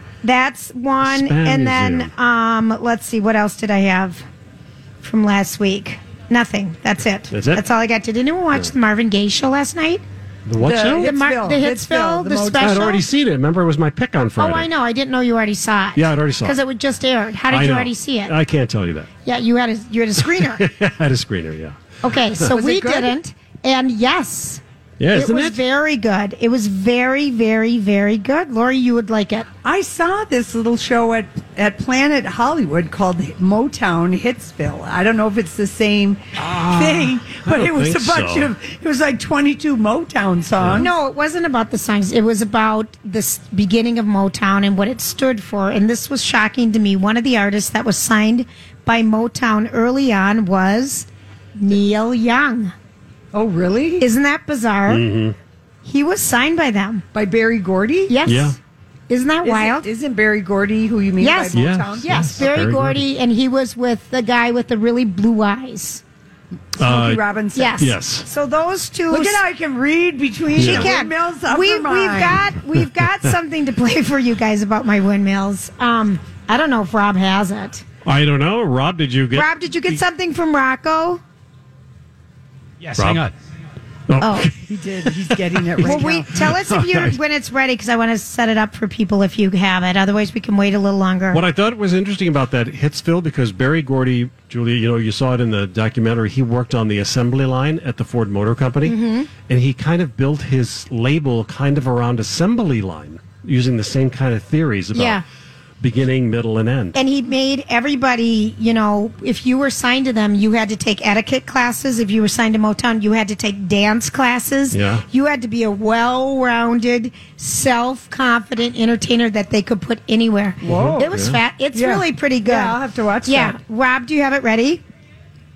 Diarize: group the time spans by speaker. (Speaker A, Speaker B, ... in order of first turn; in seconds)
Speaker A: 0.2-4.2, 5.0-10.0, 10.8-13.1, 14.4-18.4, 19.2-20.7, 22.0-29.5, 40.7-52.7, 54.0-55.0, 55.8-57.1, 58.1-58.6, 59.1-59.9, 61.2-66.0, 67.5-69.4, 70.5-77.8, 79.3-81.2, 84.2-84.5, 85.8-91.4, 98.8-99.3, 104.9-105.2, 106.9-124.8
Speaker B: 1.0-2.1, 7.3-7.6, 10.4-11.1, 12.6-14.7, 15.9-16.6, 17.5-19.1, 20.5-21.8, 25.0-25.6, 36.4-38.5, 40.6-40.9, 54.9-55.4, 58.2-58.6, 61.5-63.0, 66.8-67.2, 67.8-68.3, 70.6-70.9, 78.0-80.0, 82.9-83.3, 84.1-87.2, 91.3-105.2, 105.8-107.0, 114.7-115.0, 120.7-121.4
Speaker C: 10.6-12.8, 22.5-23.2, 29.6-40.9, 53.3-54.0, 57.1-58.1, 59.4-62.4, 66.8-67.8, 69.1-72.4, 84.7-86.4, 120.6-121.1, 121.7-123.6